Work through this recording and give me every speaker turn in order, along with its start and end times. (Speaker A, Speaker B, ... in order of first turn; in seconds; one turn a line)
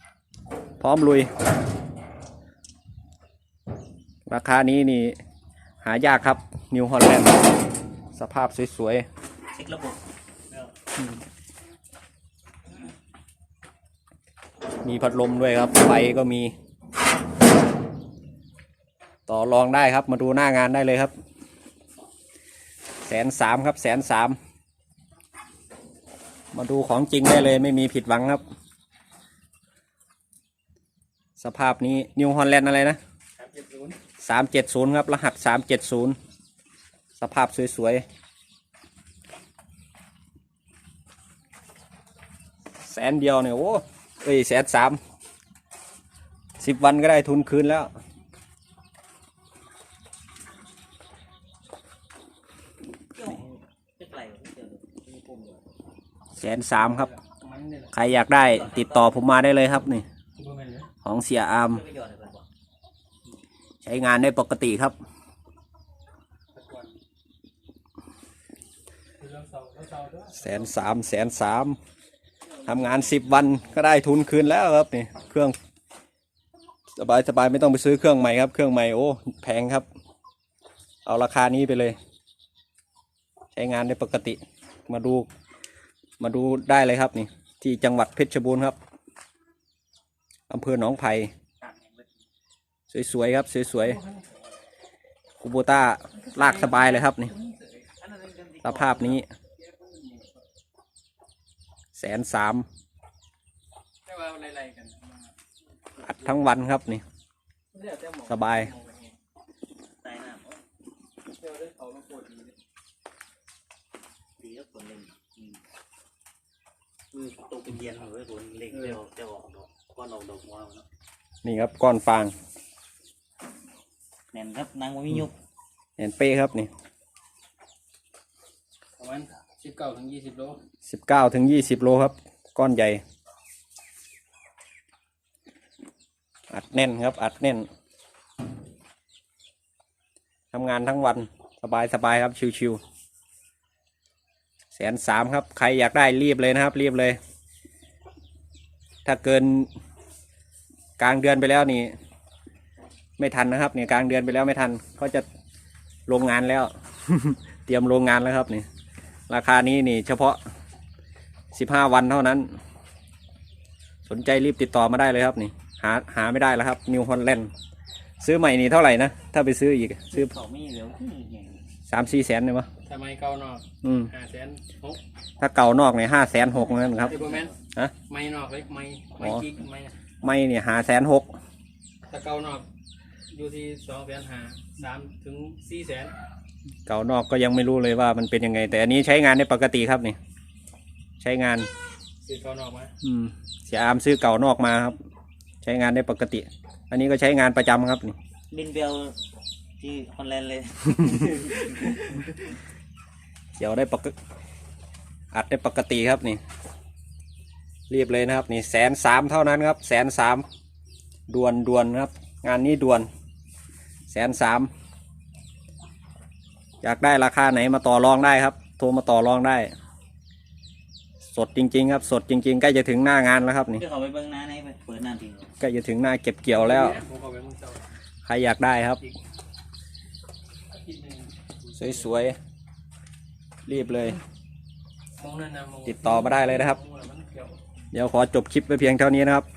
Speaker A: 0.8-1.3
Speaker A: 4.2-5.2
Speaker A: 5.8-7.4
Speaker A: 8.1-9.0
Speaker B: 9.5-10.7
Speaker A: 14.8-16.5
Speaker A: 19.3-21.1
Speaker A: 23.0-24.4
Speaker A: 26.5-28.4
Speaker A: 31.4-33.0
Speaker C: 33.4-34.0
Speaker A: 34.2-36.2
Speaker A: 37.2-38.0
Speaker A: 42.8-45.0
Speaker A: 46.6-47.9
Speaker B: 53.1-55.6
Speaker A: 56.4-57.1
Speaker C: 56.8-57.9
Speaker A: 57.9-60.0
Speaker B: 58.4-59.3
Speaker C: 60.4-60.9
Speaker A: 61.0-61.8
Speaker B: 61.7-62.5
Speaker A: 63.8-65.0
Speaker C: 66.5-67.0
Speaker C: 69.2-70.7
Speaker A: 70.3-71.8
Speaker A: 72.6-75.5
Speaker A: 77.0-79.8
Speaker A: 81.0-82.0
Speaker A: 83.5-85.3
Speaker A: 86.2-88.8
Speaker A: 90.5-91.3
Speaker B: 91.6-92.2
Speaker A: 92.9-94.0
Speaker C: 93.9-94.3
Speaker A: 95.4-97.3
Speaker C: 96.2-97.9
Speaker B: 98.0-99.2
Speaker A: 98.6-99.3
Speaker C: 99.6-100.4
Speaker A: 101.9-102.7
Speaker C: 104.0-105.3
Speaker A: 106.0-107.0
Speaker C: 107.7-109.2
Speaker A: 108.3-108.7
Speaker B: 110.0-110.6
Speaker C: 111.4-112.5
Speaker B: 114.4-115.6
Speaker B: 117.1-120.8
Speaker A: 121.4-122.3
Speaker B: 124.3-125.3
Speaker A: 126.0-126.7
Speaker C: 129.0-130.6
Speaker A: 130.8-133.0
Speaker A: 136.5-137.7
Speaker A: 140.5-142.8
Speaker A: 144.7-147.2
Speaker A: 149.0-149.7
Speaker A: 151.0-151.9
Speaker A: 153.2-155.2
Speaker A: 156.1-158.7
Speaker A: 159.3-160.4
Speaker A: 161.5-162.5
Speaker A: 164.1-167.5
Speaker A: 168.2-170.3
Speaker B: 170.1-171.6
Speaker A: 171.9-172.7
Speaker C: 172.8-175.0
Speaker A: 173.8-174.1
Speaker A: 175.4-177.2
Speaker B: 177.0-177.5
Speaker C: 177.1-177.5
Speaker C: 178.1-179.9
Speaker A: 179.2-179.4
Speaker A: 180.2-181.3
Speaker C: 182.1-182.6
Speaker C: 183.3-186.1
Speaker A: 186.8-190.2
Speaker A: 191.2-191.7
Speaker C: 192.2-192.9
Speaker A: 193.0-195.0
Speaker A: 195.6-198.2
Speaker B: 198.5-199.2
Speaker B: 199.8-202.0
Speaker A: 203.6-204.1
Speaker A: 205.3-206.4
Speaker A: 207.9-210.4
Speaker A: 211.3-213.1
Speaker A: 214.1-214.7
Speaker A: 216.8-219.7
Speaker A: 221.3-223.8
Speaker B: 223.7-225.5
Speaker A: 225.6-227.0
Speaker C: 226.5-227.9
Speaker A: 228.2-229.0
Speaker C: 230.7-232.1
Speaker A: 231.8-232.4
Speaker A: 233.7-234.2
Speaker C: 235.2-237.6
Speaker A: 235.8-236.8
Speaker A: 237.9-239.4